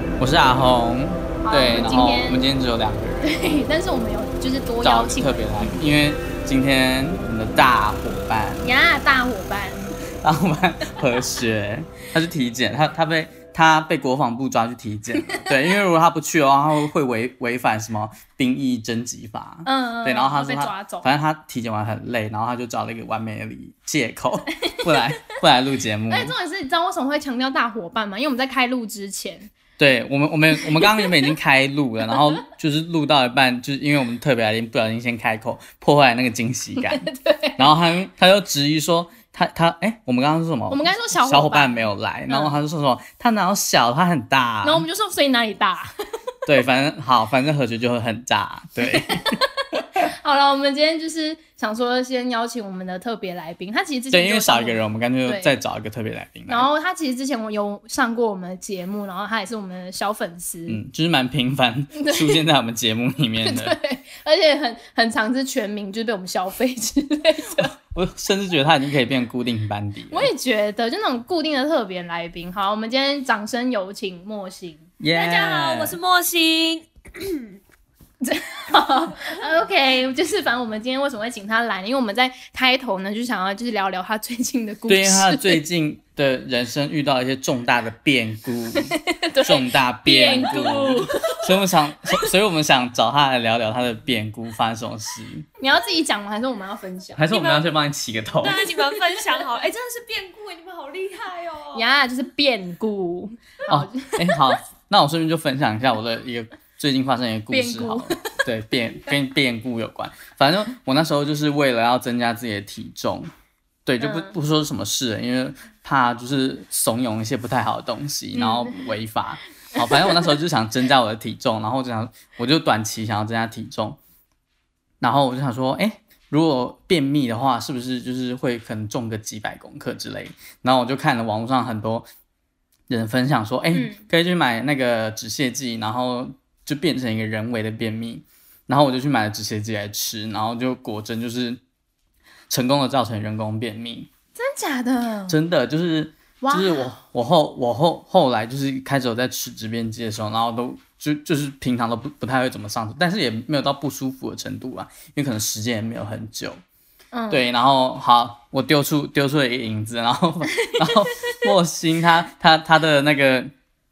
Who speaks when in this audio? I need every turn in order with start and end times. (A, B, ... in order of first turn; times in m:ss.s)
0:00.2-0:03.3 A
0:01.4-0:02.4 B
0:03.2-0:05.8 B
0:04.8-0:08.7 A
0:08.6-0:10.0 B
0:10.2-0:26.3 A
0:19.6-0:21.1 B
0:24.6-0:25.4 B
0:26.1-0:29.5 B
0:29.8-0:44.9 A
0:36.8-0:37.6 B
0:40.7-0:42.6 B
0:44.6-0:45.9 B
0:46.5-0:49.4 A
0:48.8-0:55.6 B
0:54.1-0:56.7 A
0:56.5-1:00.8 B
1:00.7-1:03.8 A
1:02.0-1:02.4 B
1:03.4-1:07.7 B
1:07.6-1:10.3 A
1:10.1-1:14.9 B
1:15.0-1:16.0 A
1:15.1-1:17.6 C
1:18.2-1:25.6 B
1:24.9-1:35.5 A
1:28.9-1:31.6 B
1:35.6-1:37.2 B
1:37.2-1:38.6 A
1:37.3-1:37.8 C
1:38.4-1:41.9 C
1:38.8-1:39.2 B
1:41.7-1:44.6 B
1:43.7-1:53.3 A
1:47.5-1:48.4 B
1:53.9-2:04.0 A
1:54.0-1:54.4 B
1:58.3-1:58.9 B
1:59.8-2:00.1 B
2:05.0-2:12.1 A
2:12.9-2:21.6 A
2:13.7-2:14.1 B
2:22.5-2:24.1 A
2:24.4-2:25.4 B
2:25.3-2:36.6 A
2:26.4-2:26.9 B
2:37.1-2:37.4 B
2:37.3-2:43.5 A
2:40.6-2:41.4 B